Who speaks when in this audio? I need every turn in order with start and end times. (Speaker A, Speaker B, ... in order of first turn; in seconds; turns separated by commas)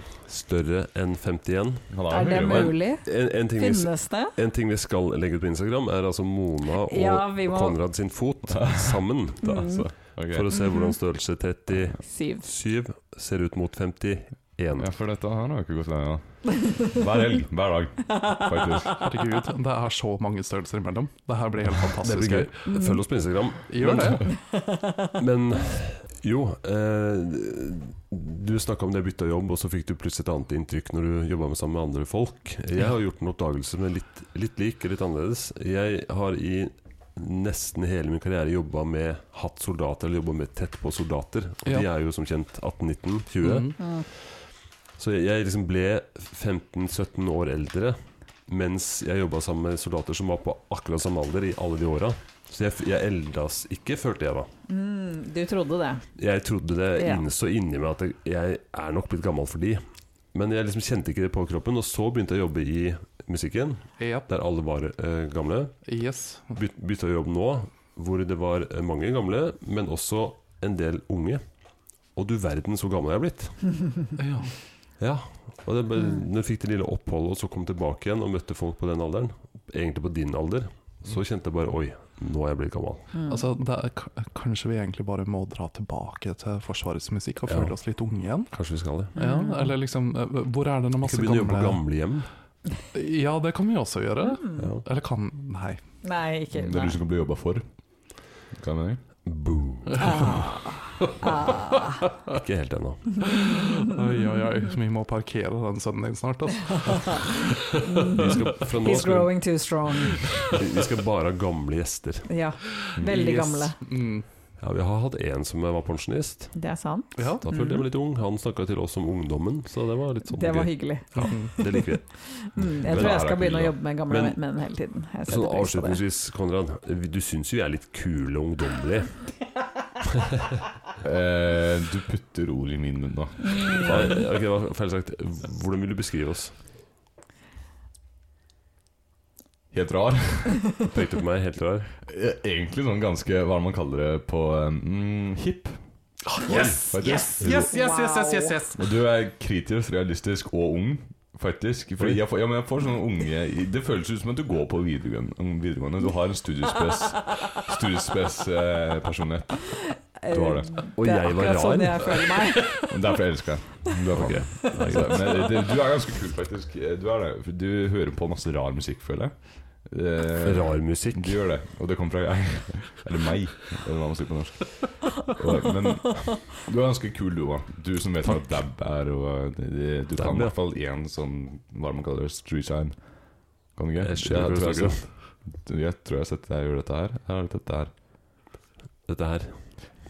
Speaker A: 0.2-14.9, Speaker B: 1.9-2.8, Speaker C: 2.1-4.3, Speaker C: 6.9-7.8, Speaker B: 8.5-10.5, Speaker C: 9.4-9.9, Speaker C: 10.5-11.0, Speaker C: 12.0-12.5, Speaker B: 14.8-19.1, Speaker C: 18.2-18.8, Speaker D: 19.0-22.7, Speaker A: 22.0-24.6, Speaker C: 22.7-23.0, Speaker D: 23.7-24.3, Speaker C: 24.4-25.1, Speaker A: 25.2-54.5, Speaker D: 43.4-43.8, Speaker C: 43.8-44.1, Speaker C: 54.7-56.0, Speaker A: 56.2-65.9, Speaker C: 57.0-57.2, Speaker D: 64.0-64.3, Speaker D: 65.9-66.6, Speaker A: 66.5-73.8, Speaker D: 74.2-74.5, Speaker A: 75.0-83.1, Speaker C: 83.1-83.4, Speaker D: 83.3-88.5, Speaker A: 87.5-87.8, Speaker A: 88.5-89.1, Speaker C: 89.2-89.8, Speaker D: 89.2-91.8, Speaker A: 91.0-92.3, Speaker D: 92.9-95.8, Speaker C: 94.2-94.7, Speaker A: 94.6-94.8, Speaker C: 96.0-97.0, Speaker B: 96.5-97.6, Speaker B: 98.5-99.0, Speaker A: 99.3-100.3, Speaker C: 100.0-102.0, Speaker A: 102.3-103.5, Speaker C: 103.2-103.6, Speaker D: 103.8-107.8, Speaker C: 107.2-110.4, Speaker A: 108.1-109.7, Speaker A: 110.5-112.4, Speaker C: 112.3-113.8, Speaker D: 113.0-114.2, Speaker A: 114.6-116.6, Speaker C: 116.5-117.9, Speaker D: 117.2-117.5, Speaker A: 117.4-123.3, Speaker C: 120.3-126.0, Speaker D: 121.2-121.6, Speaker B: 122.8-123.8, Speaker A: 124.1-124.6, Speaker A: 125.2-129.3, Speaker B: 131.0-134.2, Speaker C: 133.4-134.0, Speaker A: 133.8-136.6, Speaker B: 139.7-140.9, Speaker A: 140.8-141.9, Speaker B: 142.1-145.8, Speaker D: 146.3-148.9, Speaker B: 146.4-147.5, Speaker C: 147.0-148.6, Speaker B: 148.8-160.7, Speaker C: 160.2-163.0, Speaker A: 161.0-162.5, Speaker B: 162.8-187.9, Speaker A: 164.1-165.5, Speaker C: 164.6-165.5, Speaker A: 170.4-171.4, Speaker A: 180.1-180.5, Speaker A: 184.0-185.1, Speaker A: 189.1-190.0